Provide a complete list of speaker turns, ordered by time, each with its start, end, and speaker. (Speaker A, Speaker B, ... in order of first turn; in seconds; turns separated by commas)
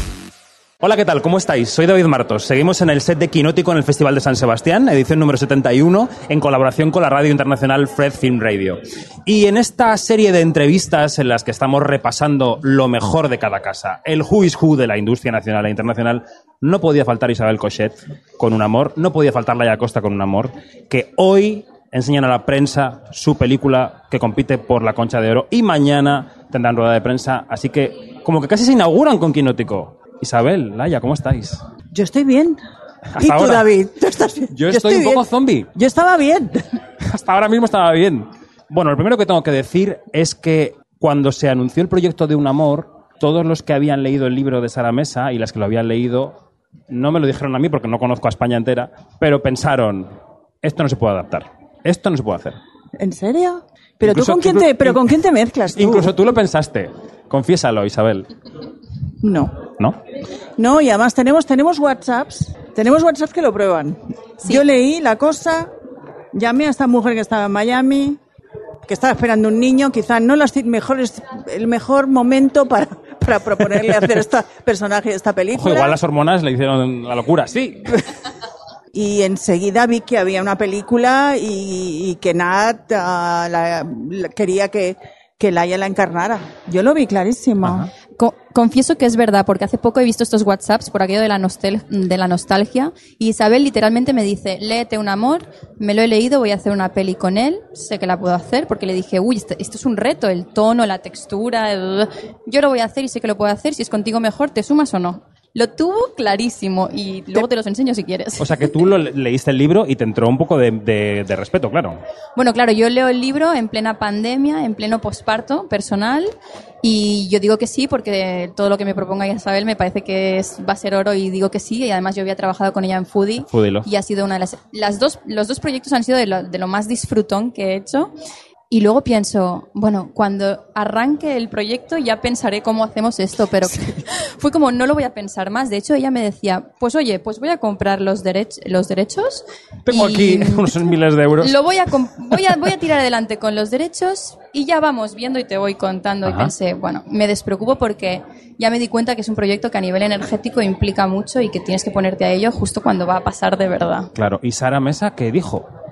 Speaker A: 0.8-31.6, Speaker B: 31.9-32.6, Speaker A: 33.1-33.7, Speaker B: 33.2-36.6, Speaker A: 34.5-35.7, Speaker A: 37.0-46.4, Speaker A: 46.9-50.1, Speaker A: 50.6-52.6, Speaker B: 53.0-56.1, Speaker A: 54.0-55.1, Speaker A: 55.7-58.3, Speaker B: 59.2-59.6, Speaker B: 60.6-65.7, Speaker B: 66.3-68.2, Speaker B: 68.8-76.0, Speaker A: 75.6-78.0, Speaker B: 78.9-87.9, Speaker A: 87.6-87.9, Speaker C: 88.2-108.7, Speaker A: 108.4-112.0, Speaker C: 112.3-128.1, Speaker A: 123.5-123.9, Speaker C: 128.7-140.8, Speaker A: 139.8-141.6, Speaker C: 141.4-154.1, Speaker A: 146.2-146.5, Speaker A: 154.1-155.7